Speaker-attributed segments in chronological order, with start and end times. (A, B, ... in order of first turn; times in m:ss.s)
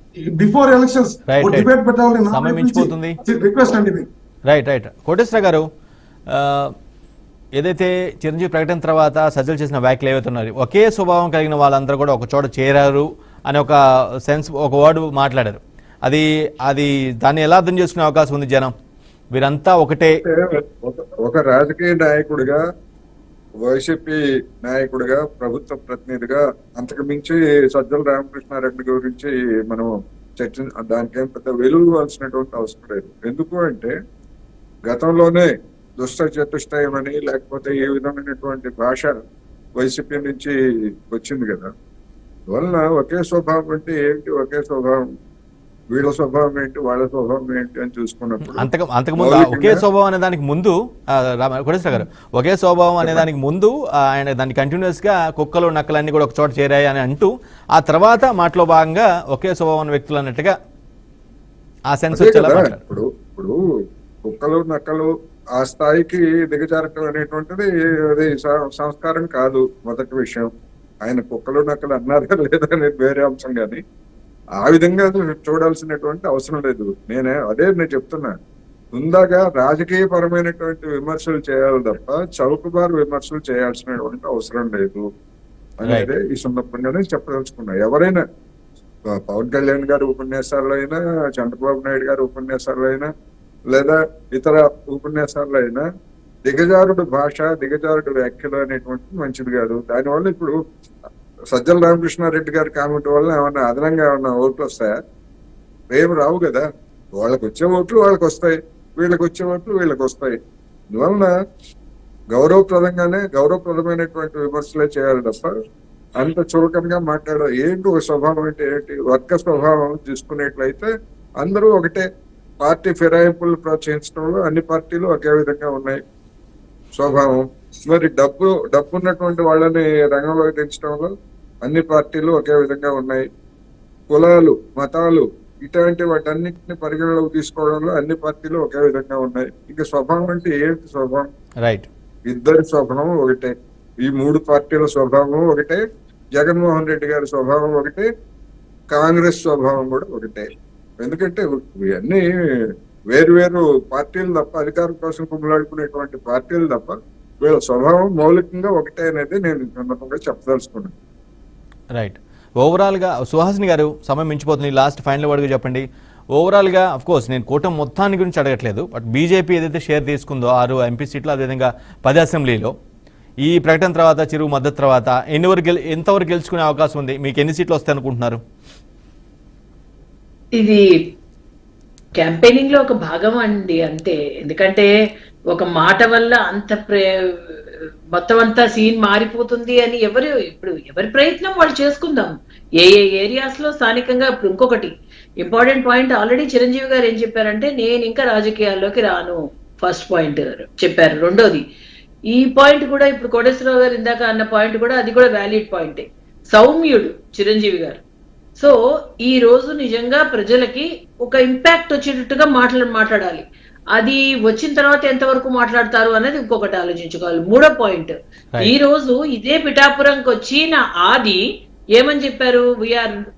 0:00.4-0:04.0 A
0:01.3-0:01.7 B
0:02.3-0:03.2 B
0:04.5-0:05.6 B
0:06.3-0:06.7 B
0:07.6-0:18.7 B
0:19.3-0:20.1 B
0:20.2-0:22.6 C
0:23.6-0:33.9 C
0:34.9-0:35.5 C
0:36.0-0:39.2 C
0:39.8-0:40.5 C
0:41.1-0:41.7 C
0:42.5-0:45.0 C
0:45.9-0:49.8 C
0:48.5-1:00.6 B
0:53.0-0:53.3 C
1:01.9-1:02.8 B
1:02.1-1:03.6 C
1:04.2-1:10.5 C
1:11.0-1:13.8 C
1:14.6-1:18.4 C
1:18.9-1:25.0 C
1:25.8-1:28.2 C
1:29.3-1:33.1 C
1:33.7-1:35.8 C
1:36.4-1:40.6 C
1:41.5-1:45.0 C
1:45.9-1:46.6 C
1:47.2-1:50.4 C
1:50.9-1:51.3 C
1:52.3-1:55.5 C
1:56.2-2:02.0 C
2:02.6-2:06.0 C
2:07.0-2:11.1 C
2:11.6-2:13.3 C
2:14.1-2:21.3 C
2:22.3-2:25.8 C
2:26.4-2:28.1 C
2:28.9-2:30.5 C
2:31.0-2:32.2 C
2:33.1-2:40.9 C
2:41.9-2:52.7 B
2:53.4-2:58.4 B
3:00.6-3:00.8 D
3:02.2-3:04.9 D
3:05.5-3:07.1 D
3:08.1-3:21.6 D
3:22.3-3:28.0 D
3:28.6-3:41.4 D
3:42.0-3:43.1 D